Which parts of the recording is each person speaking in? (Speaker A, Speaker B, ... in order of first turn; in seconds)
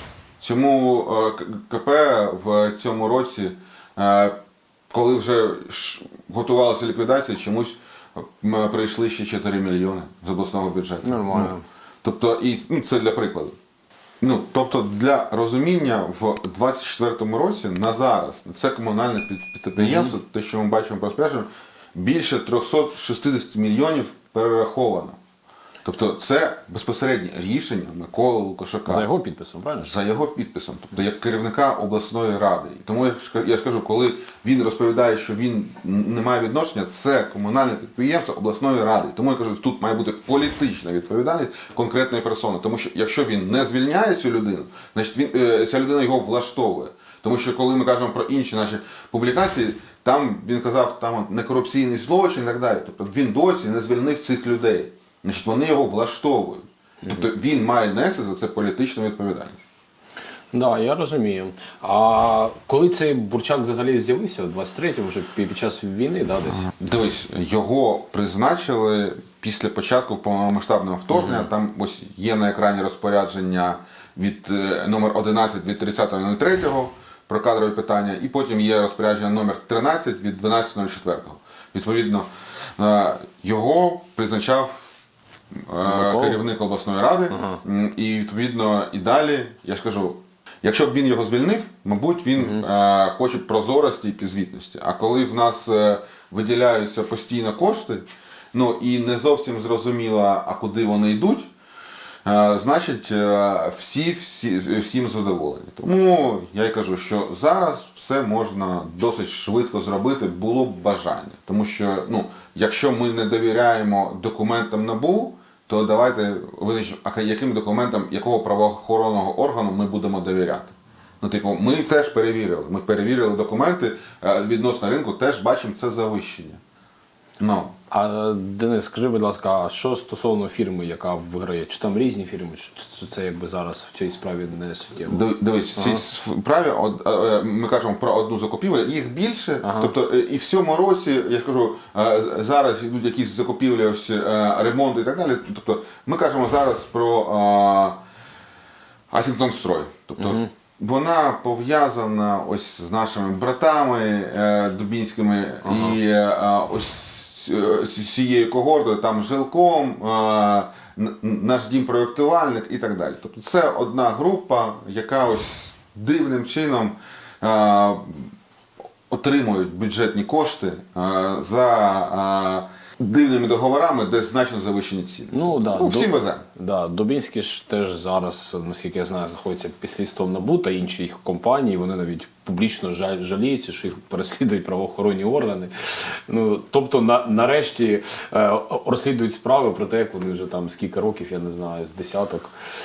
Speaker A: 0.4-4.4, 4.9-13.6, 14.2-25.2, 25.9-29.1, 29.8-59.6, 66.5-85.0, 85.7-101.5, 102.2-126.6, 127.4-127.8, 135.1-148.0, 149.1-168.3, 169.1-176.4
Speaker B: 11.0-11.6, 19.8-20.1, 28.9-29.9, 60.5-66.7, 71.1-71.5, 85.8-86.4, 87.3-87.6, 92.4-92.6, 127.9-136.0, 139.6-139.9, 150.2-150.5, 155.6-156.0, 175.3-192.5